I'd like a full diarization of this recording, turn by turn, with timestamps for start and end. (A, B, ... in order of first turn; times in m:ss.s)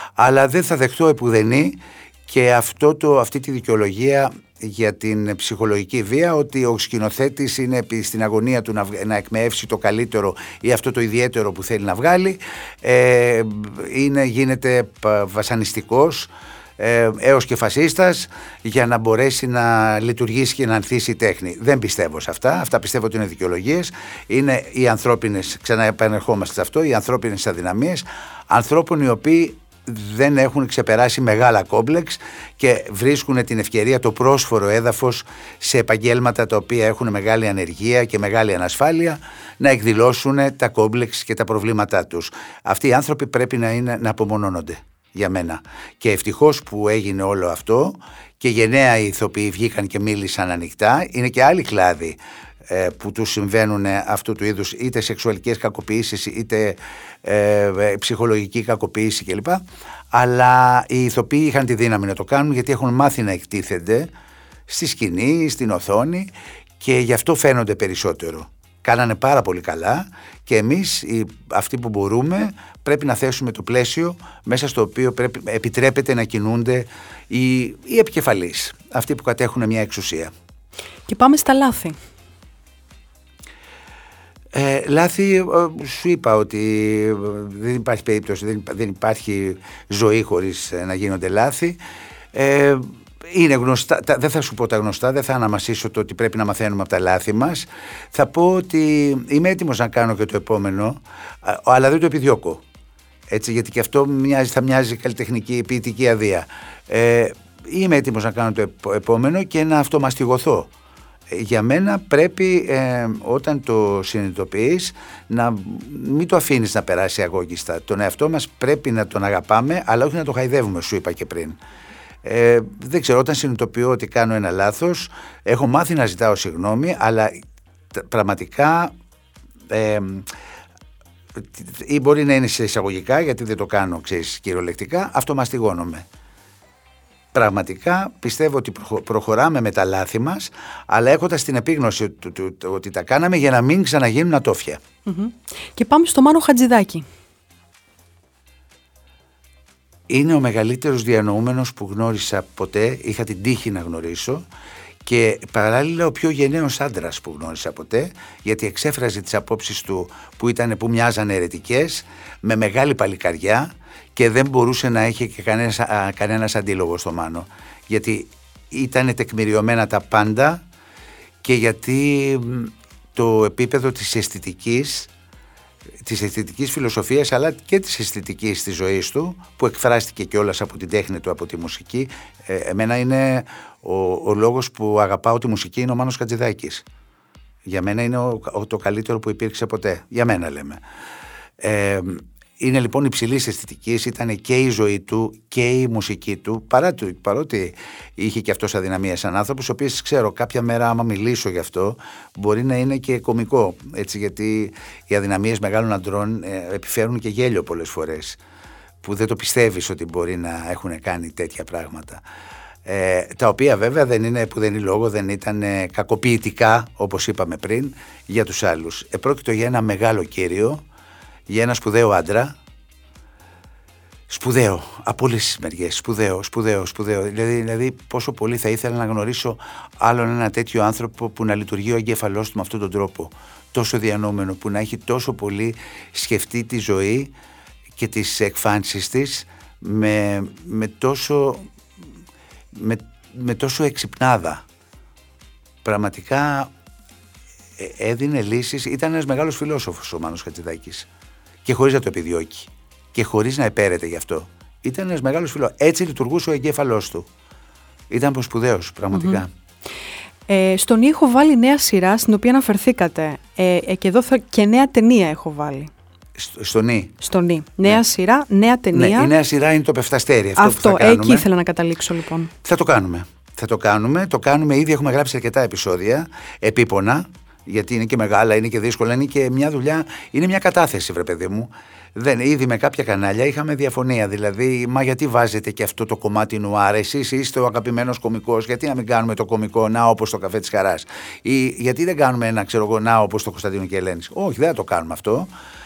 0:00.2-1:04.1 A
1:04.7-1:20.3 A
1:21.1-1:22.0 B
1:24.5-1:31.8 A
1:32.3-1:42.6 A
1:43.3-1:50.7 A
1:51.3-2:01.6 A
2:02.2-2:07.4 A
2:07.9-2:08.9 A
2:09.7-2:10.2 A
2:11.4-2:16.0 A
2:17.3-2:24.8 A
2:25.0-2:27.0 B
2:30.1-2:34.4 A
2:35.0-2:50.6 A
2:51.4-2:55.1 A
2:56.0-3:06.8 A
3:07.6-3:10.8 A
3:11.6-3:28.4 A
3:29.0-3:32.2 A
3:32.8-3:40.8 A
3:41.5-3:42.6 A
3:44.3-3:57.3 A
3:58.0-4:01.7 A
4:02.7-4:04.6 A
4:05.8-4:06.7 A
4:07.8-4:11.1 A
4:11.6-4:17.3 A
4:18.1-4:19.5 A
4:19.1-4:19.4 B
4:20.5-4:25.9 B
4:26.4-4:27.2 A
4:27.2-4:29.3 B
4:28.9-4:31.5 A
4:30.6-4:32.5 B
4:32.6-4:55.5 A